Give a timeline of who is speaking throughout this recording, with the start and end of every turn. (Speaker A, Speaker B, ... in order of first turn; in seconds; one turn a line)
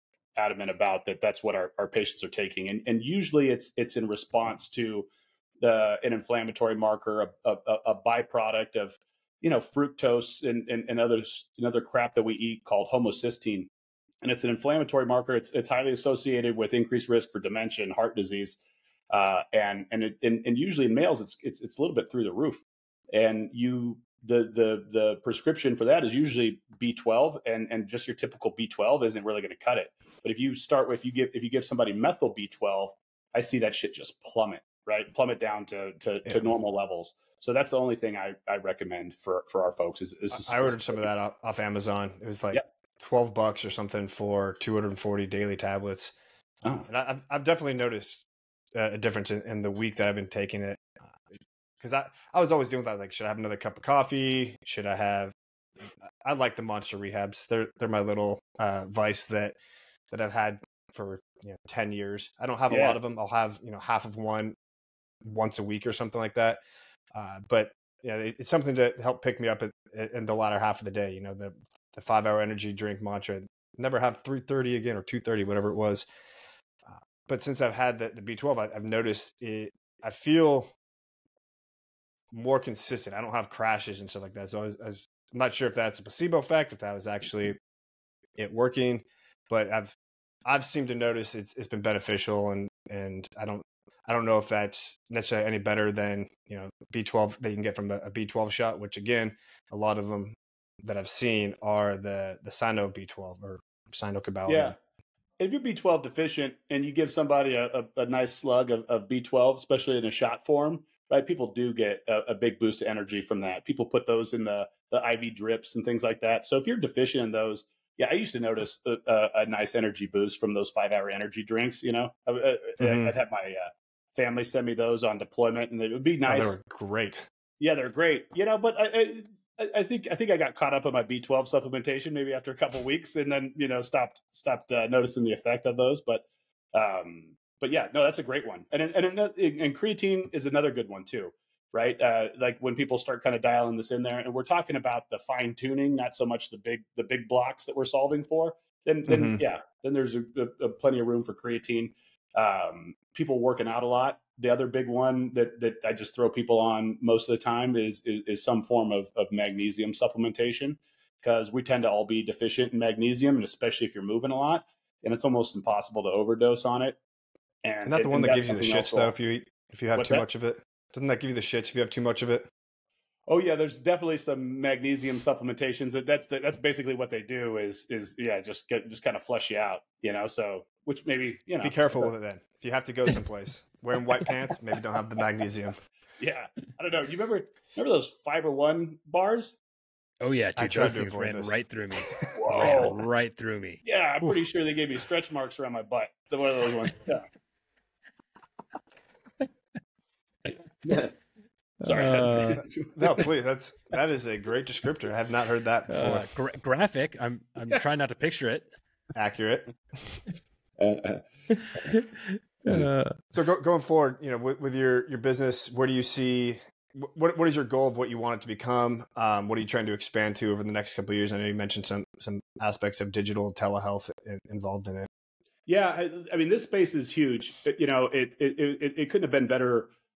Speaker A: 0.3-5.1
Speaker A: 5.6-13.7
Speaker A: 14.2-18.6
Speaker A: 19.1-41.0
Speaker B: 40.3-46.1
Speaker B: 46.9-51.2
Speaker B: 51.8-59.5
Speaker B: 60.1-64.5
Speaker A: 62.7-63.0
Speaker B: 65.2-66.6
Speaker B: 67.1-76.0
Speaker B: 76.8-80.7
Speaker B: 82.3-87.6
Speaker B: 88.4-89.9
Speaker B: 90.5-104.7
Speaker A: 104.5-104.8
Speaker A: 105.4-126.5
Speaker B: 122.8-123.1
Speaker B: 126.2-127.3
Speaker A: 127.6-167.0
Speaker B: 149.1-149.4
Speaker A: 167.6-169.1
Speaker B: 167.8-172.5
Speaker A: 169.9-170.2
Speaker A: 173.3-182.1
Speaker B: 181.6-185.8
Speaker A: 186.2-189.6
Speaker C: 190.2-193.8
Speaker B: 190.6-191.6
Speaker A: 192.3-192.9
Speaker A: 193.8-197.3
Speaker A: 200.8-201.1
Speaker C: 201.8-202.6
Speaker A: 201.8-203.0
Speaker B: 202.6-206.3
Speaker C: 205.9-208.7
Speaker B: 209.1-209.7
Speaker A: 210.8-211.2
Speaker C: 211.6-212.1
Speaker C: 212.6-213.2
Speaker B: 213.3-225.1
Speaker A: 225.7-229.9